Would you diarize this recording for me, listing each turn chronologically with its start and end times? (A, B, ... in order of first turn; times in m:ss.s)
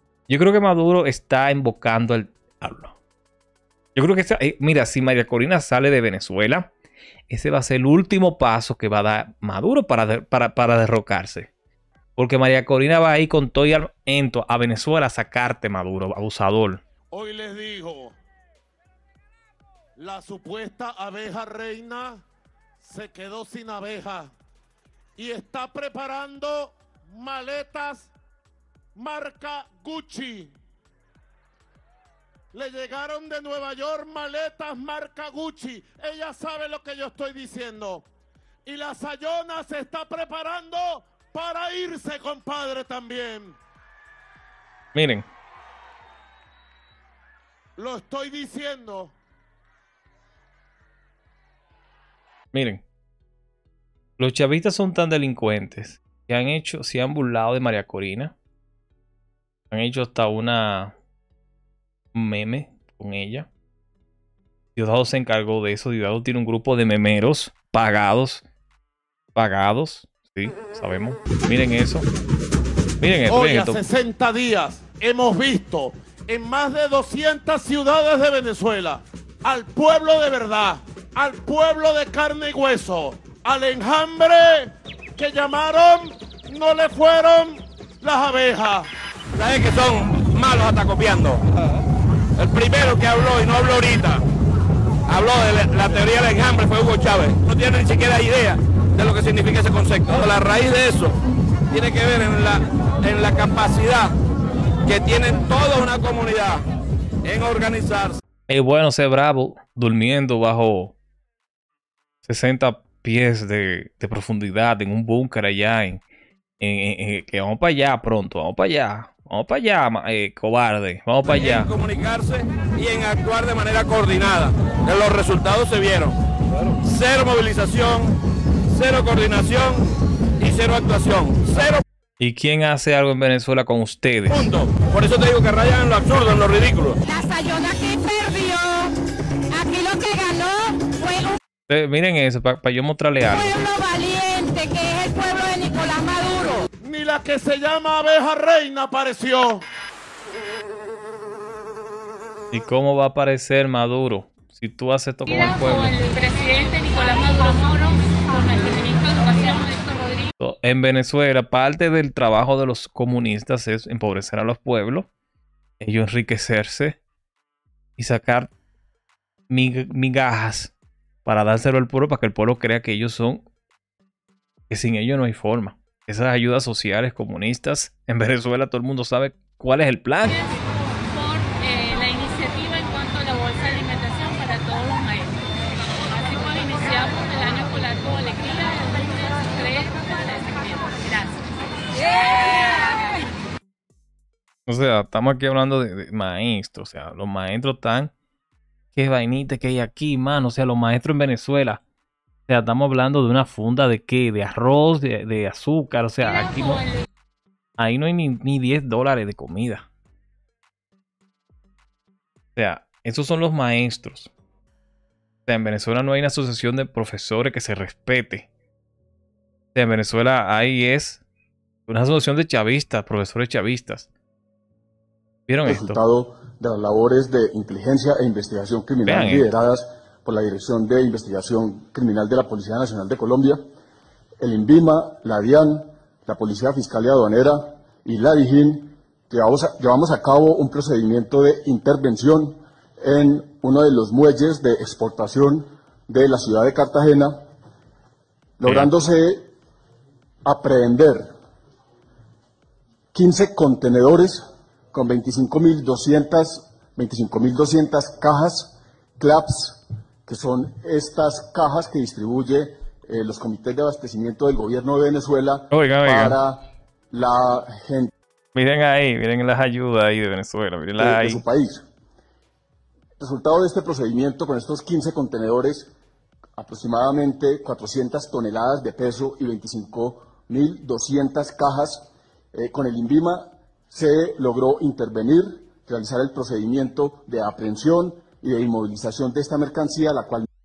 0:00.3-0:03.0 A
0:03.9-0:06.7 A
0:07.3-0:11.5 A
0:12.2-0:16.8 A
0:17.1-0:18.2 B
0:20.0-0:22.2 B
0:22.8-0:24.3 B
0:25.2-0:28.1 B
0:28.9-0:30.5 B
0:32.5-0:38.0 B
0:38.6-0:43.6 B
0:44.9-0:45.3 A
0:47.8-0:49.1 B
0:52.5-0:52.8 A
0:54.2-0:58.3 A
0:59.7-1:00.9 A
1:02.1-1:03.5 A
1:04.8-1:08.4 A
1:09.3-1:12.0 A
1:13.0-1:13.8 A
1:13.3-1:28.9 B
1:29.3-1:31.4 C
1:32.4-1:34.2 C
1:35.0-1:41.2 C
1:41.7-1:44.1 C
1:44.8-1:46.6 C
1:47.2-1:48.2 C
1:48.5-1:50.9 A
1:52.2-1:56.0 A
1:56.6-2:01.7 A
2:01.4-2:06.2 C
2:06.8-2:08.2 C
2:08.7-2:09.9 C
2:10.4-2:11.8 C
2:12.2-2:14.5 A
2:14.4-2:17.0 C
2:17.0-2:18.9 D
2:19.5-2:21.4 D
2:21.7-2:23.6 A
2:23.2-2:26.6 D
2:26.8-2:29.6 B
2:32.5-2:35.9 A
2:36.0-2:37.8 E
2:37.0-2:37.4 D
2:38.4-2:40.2 E
2:40.4-2:45.1 A
2:45.8-2:47.0 A
2:48.0-2:48.5 A
2:49.5-2:50.7 A
2:51.2-2:53.4 A
2:54.7-3:00.4 A
3:01.1-3:05.3 E
3:06.3-3:11.3 E
3:06.9-3:07.3 D
3:09.2-3:10.1 D
3:12.1-3:12.9 D
3:14.7-3:18.1 A
3:18.9-3:21.8 A
3:22.5-3:26.9 A
3:27.8-3:29.9 A
3:32.6-3:34.3 A
3:35.5-3:38.5 A
3:39.7-3:41.2 A
3:41.9-3:44.1 A
3:45.5-3:46.0 A
3:45.6-3:53.6 F
3:49.0-3:49.5 A
3:54.4-4:07.3 F
4:08.6-4:09.5 F
4:08.6-4:08.9 A
4:10.4-4:11.3 F
4:13.1-4:28.1 F
4:25.7-4:26.4 A
4:28.5-4:31.4 A
4:31.0-4:31.8 F
4:33.2-4:35.9 F
4:36.6-4:50.4 F